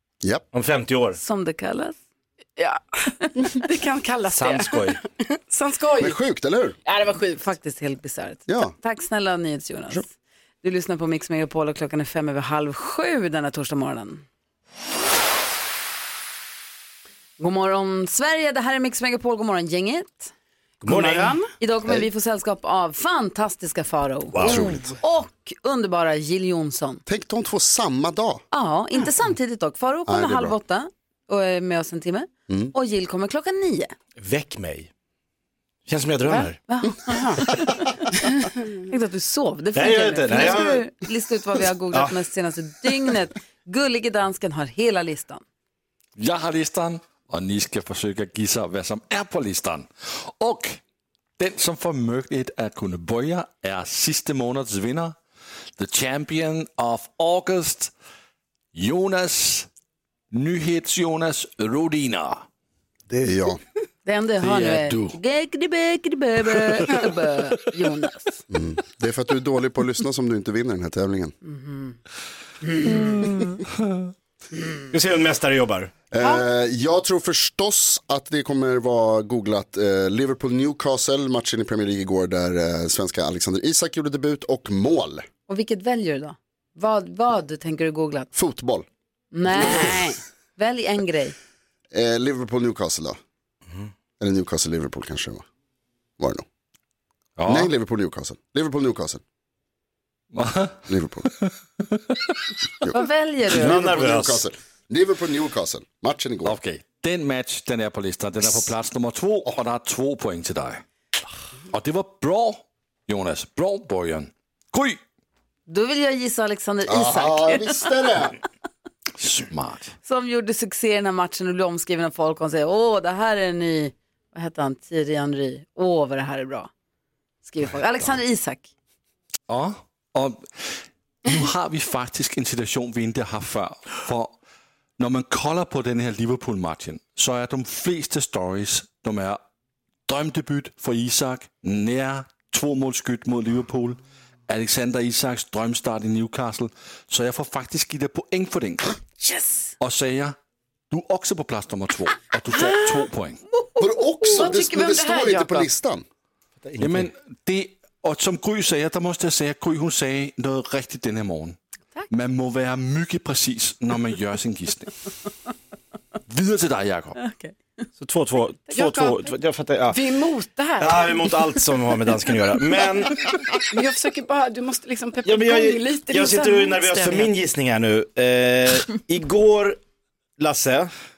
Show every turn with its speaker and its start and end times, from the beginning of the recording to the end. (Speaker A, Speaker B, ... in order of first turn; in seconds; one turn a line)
Speaker A: 0.5-1.2
Speaker B: 1.2-2.0
Speaker C: 2.6-6.2
Speaker A: 4.3-5.0
Speaker D: 6.0-6.8
Speaker C: 6.9-7.5
Speaker B: 7.4-10.1
Speaker D: 8.5-8.8
Speaker B: 10.6-14.2
Speaker B: 17.4-20.3
Speaker A: 20.8-21.4
Speaker C: 20.9-21.5
Speaker B: 21.6-27.0
Speaker A: 24.3-24.7
Speaker D: 24.4-24.9
Speaker D: 27.1-28.4
Speaker B: 28.5-33.9
Speaker D: 30.1-30.6
Speaker D: 32.5-32.7
Speaker A: 34.2-34.9
Speaker A: 35.9-36.6
Speaker B: 36.7-37.9
Speaker C: 37.1-37.4
Speaker B: 38.9-45.4
Speaker A: 39.7-40.8
Speaker E: 46.2-50.8
Speaker E: 51.4-55.2
Speaker E: 55.8-57.9
Speaker E: 58.7-59.7
Speaker E: 60.3-62.4
Speaker D: 63.1-63.6
Speaker B: 64.1-68.4
Speaker E: 64.4-65.2
Speaker D: 68.5-71.3
Speaker B: 71.5-72.0
Speaker B: 72.6-73.6
Speaker A: 74.9-75.9
Speaker D: 76.1-85.3
Speaker B: 85.5-88.3
Speaker D: 88.3-88.9
Speaker B: 89.3-91.3
Speaker C: 89.7-90.1
Speaker D: 91.9-93.2
Speaker D: 94.2-95.5
Speaker D: 96.2-96.5
Speaker E: 97.4-97.7
Speaker D: 97.5-99.2
Speaker E: 100.3-100.9
Speaker D: 100.9-101.3
Speaker E: 101.4-102.3
Speaker B: 102.9-103.8
Speaker D: 103.5-106.5
Speaker A: 103.5-104.4
Speaker E: 106.5-110.8
Speaker E: 111.7-115.0
Speaker B: 115.7-117.8
Speaker D: 116.9-118.4
Speaker E: 119.2-119.9
Speaker B: 120.0-126.7
Speaker B: 127.5-128.7
Speaker E: 129.5-134.3
Speaker E: 135.0-139.4
Speaker E: 140.1-148.9
Speaker B: 149.2-149.7
Speaker E: 149.8-150.4
Speaker E: 150.9-153.4
Speaker C: 152.6-152.9
Speaker B: 153.6-154.4
Speaker D: 153.8-156.0
Speaker C: 154.3-155.7
Speaker A: 156.6-157.1
Speaker E: 156.8-161.6
Speaker E: 162.1-164.9
Speaker E: 166.3-167.2
Speaker B: 167.2-167.5
Speaker A: 168.0-170.0
Speaker C: 168.7-169.3
Speaker C: 169.9-171.3
Speaker A: 170.8-173.3
Speaker C: 173.7-177.3
Speaker A: 175.2-179.8
Speaker A: 180.4-180.9